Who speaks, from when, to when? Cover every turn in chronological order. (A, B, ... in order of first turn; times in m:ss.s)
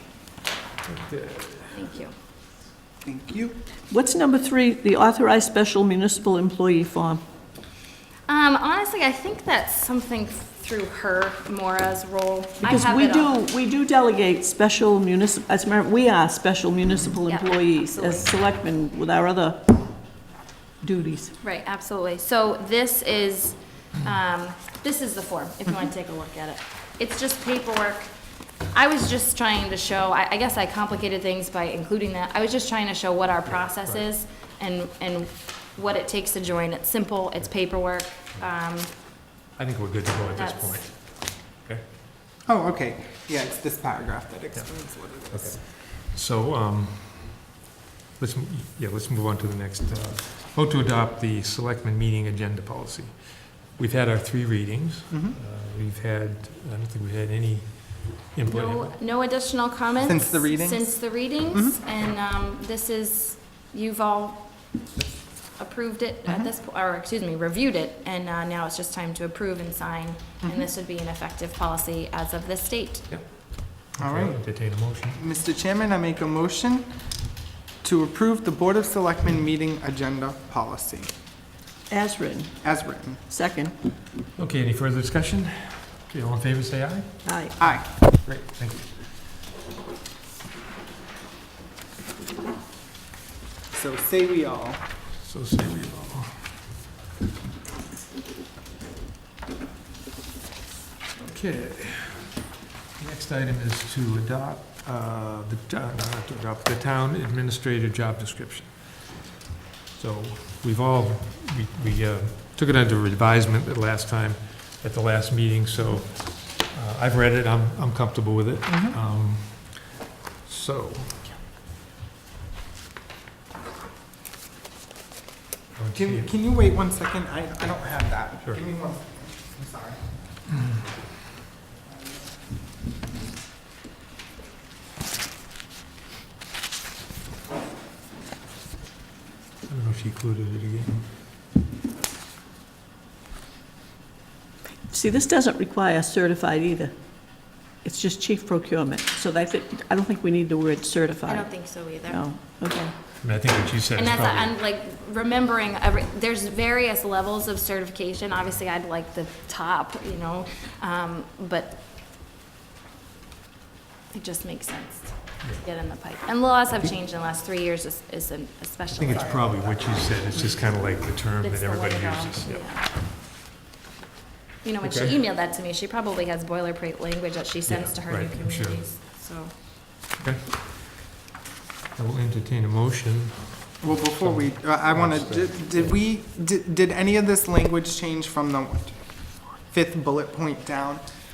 0:00.8-0:01.8 A
0:01.7-0:02.2 B
0:03.0-0:03.6 C
0:03.9-0:07.2 D
0:08.3-0:13.4 B
0:12.6-0:20.0 D
0:17.3-0:18.3 B
0:20.8-0:21.3 D
0:21.4-0:28.1 B
0:28.7-0:39.2 B
0:33.5-0:34.1 A
0:39.6-0:41.8 A
0:40.3-0:41.3 B
0:42.5-0:45.6 C
0:44.5-0:47.6 A
0:48.2-0:59.2 A
0:55.1-0:55.4 C
0:58.5-1:13.2 B
1:00.0-1:01.8 C
1:10.4-1:10.7 C
1:13.1-1:15.2 A
1:14.0-1:14.4 C
1:15.2-1:17.2 C
1:17.8-1:21.1 C
1:21.9-1:23.8 D
1:22.6-1:23.2 C
1:24.4-1:29.0 A
1:27.2-1:27.6 D
1:27.6-1:28.1 C
1:33.7-1:34.8 C
1:35.2-1:36.6 A
1:41.2-1:49.3 A
1:49.9-2:01.3 A
2:05.7-2:06.4 A
2:06.0-2:10.0 C
2:19.6-2:21.2 A
2:24.9-2:26.9 D
2:27.4-2:31.5 D
2:31.3-2:32.2 B
2:32.1-2:32.9 D
2:33.2-2:34.6 A
2:34.0-2:41.8 B
2:44.1-2:49.4 B
2:48.9-2:52.7 A
2:49.1-2:50.1 C
2:51.4-2:52.9 B
2:54.6-2:59.6 B
2:54.8-2:55.2 A
2:57.7-2:58.9 A
3:00.2-3:01.0 A
3:02.0-3:06.0 A
3:03.8-3:11.0 C